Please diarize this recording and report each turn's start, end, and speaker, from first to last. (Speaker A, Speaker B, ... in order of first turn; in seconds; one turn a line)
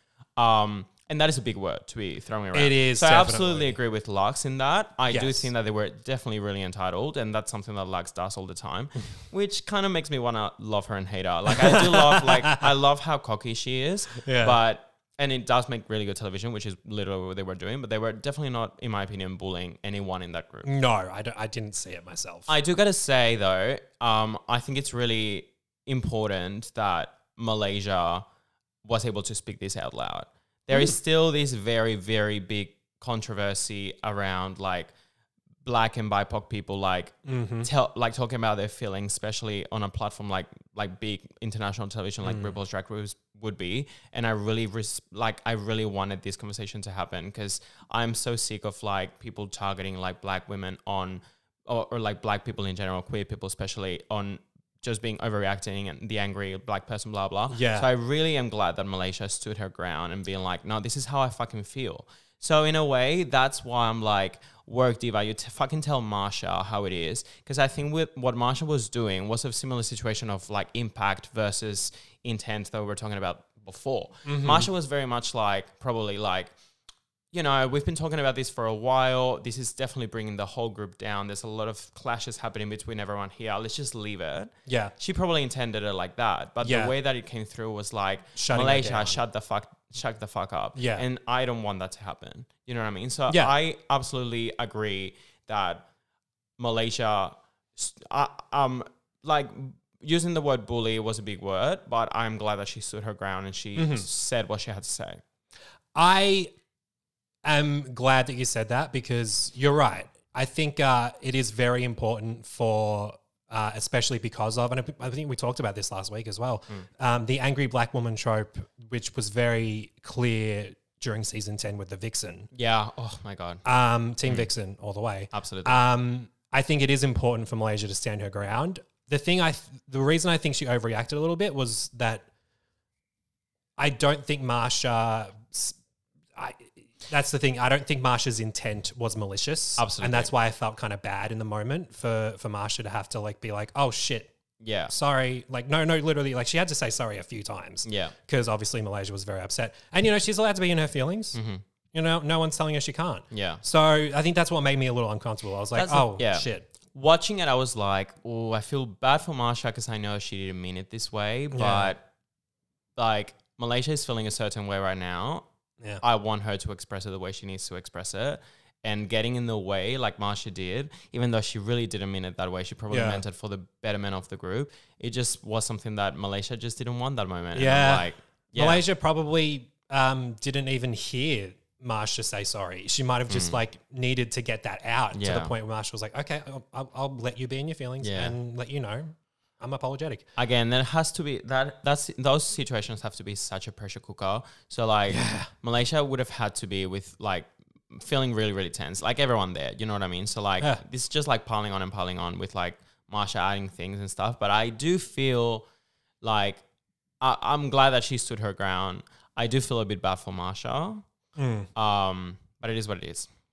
Speaker A: 0.4-20.7
Speaker B: 2.5-3.8
Speaker B: 5.1-5.5
Speaker B: 11.5-12.7
Speaker B: 14.2-14.6
Speaker B: 20.6-22.5
Speaker A: 22.5-28.2
Speaker A: 28.8-34.9
Speaker A: 35.6-76.5
Speaker B: 37.2-37.7
Speaker B: 42.2-42.5
Speaker B: 57.5-57.9
Speaker B: 74.2-74.7
Speaker A: 77.3-95.8
Speaker B: 84.7-84.9
Speaker B: 86.6-86.9
Speaker B: 88.3-89.2
Speaker B: 90.8-91.0
Speaker B: 93.3-93.5
Speaker A: 96.6-105.2
Speaker B: 103.8-104.0
Speaker B: 105.9-106.5
Speaker B: 107.4-122.5
Speaker A: 122.5-123.6
Speaker B: 123.6-132.2
Speaker A: 124.2-124.5
Speaker A: 125.3-125.8
Speaker B: 133.8-135.8
Speaker B: 136.3-144.3
Speaker A: 139.8-140.3
Speaker A: 144.6-144.9
Speaker B: 144.9-151.4
Speaker A: 147.8-148.1
Speaker A: 151.3-151.6
Speaker B: 151.9-156.7
Speaker A: 153.3-153.6
Speaker A: 155.7-162.0
Speaker B: 161.5-161.9
Speaker A: 163.0-165.5
Speaker A: 166.0-178.8
Speaker B: 172.9-173.2
Speaker B: 177.5-190.3
Speaker A: 183.3-183.6
Speaker A: 185.1-185.5
Speaker A: 188.0-188.3
Speaker A: 190.3-205.7
Speaker B: 195.1-195.5
Speaker A: 206.2-206.6
Speaker A: 207.2-211.0
Speaker B: 211.4-211.7
Speaker A: 211.8-213.3